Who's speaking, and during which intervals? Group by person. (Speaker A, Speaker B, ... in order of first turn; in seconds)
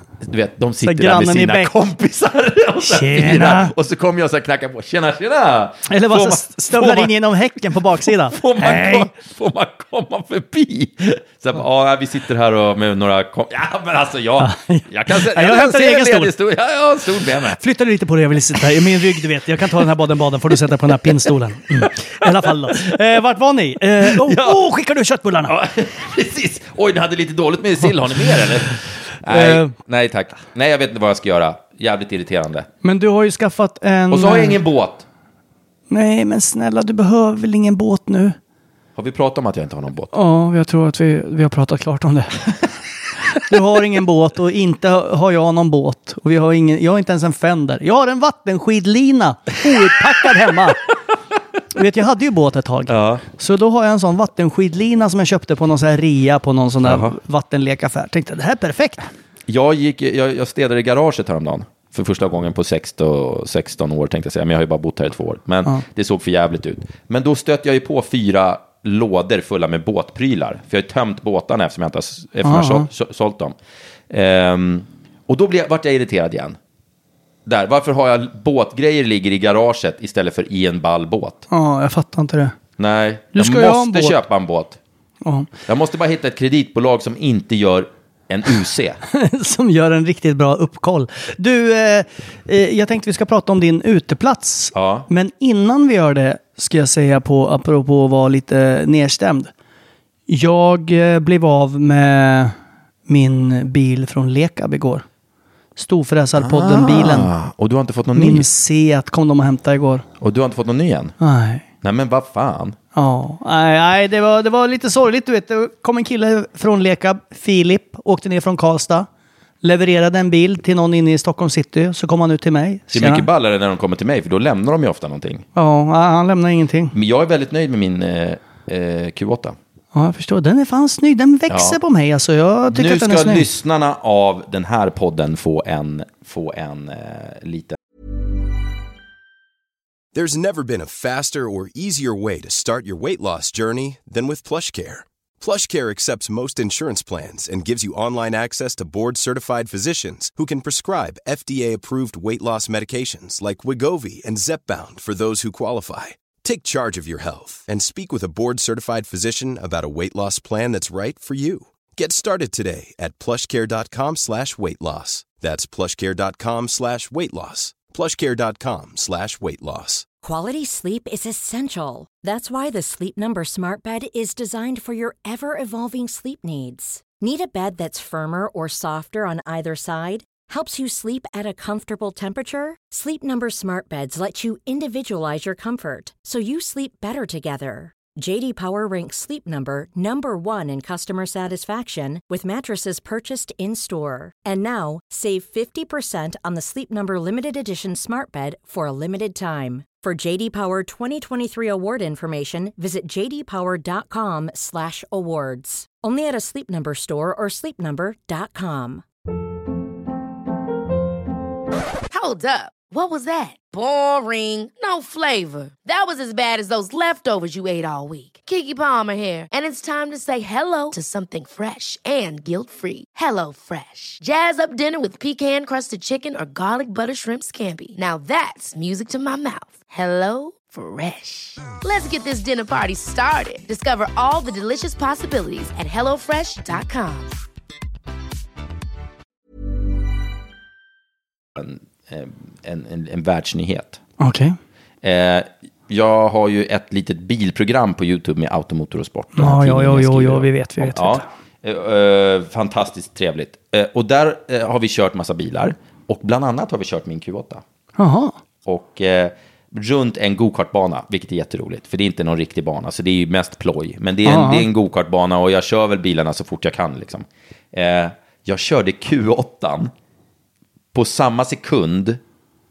Speaker A: 0.2-7.1, 7.9-17.6, 21.8-22.9, 24.0-24.6, 25.5-32.7, 34.1-35.0, 39.0-40.1, 52.9-53.2, 56.8-57.1, 59.5-73.5, 74.1-76.6, 77.5-81.4, 82.8-84.8, 85.7-89.0, 94.7-95.1, 106.4-108.5, 110.2-111.2, 111.8-112.8, 122.9-125.5, 126.9-129.6, 131.5-131.8, 132.7-137.8, 241.6-244.0, 245.0-257.6, 258.6-269.9, 270.9-272.2
Speaker B: 0.8-1.7, 2.8-3.7, 5.9-9.1, 14.4-16.3, 17.6-25.5, 29.3-29.7, 32.8-34.6, 35.9-38.4, 40.1-42.6, 43.4-50.8, 51.7-59.0, 72.4-72.9, 81.5-82.5, 83.3-84.2, 85.2-85.5, 89.1-99.5, 100.3-102.5, 103.1-105.0, 105.8-107.3, 108.1-110.0, 111.2-111.6, 112.9-119.1, 119.6-123.2, 125.5-126.9, 129.9-133.5, 244.2-244.6, 249.3-251.2, 258.0-258.4, 264.2-264.6
Speaker C: 140.1-170.1
Speaker D: 170.2-209.0
Speaker E: 212.1-237.3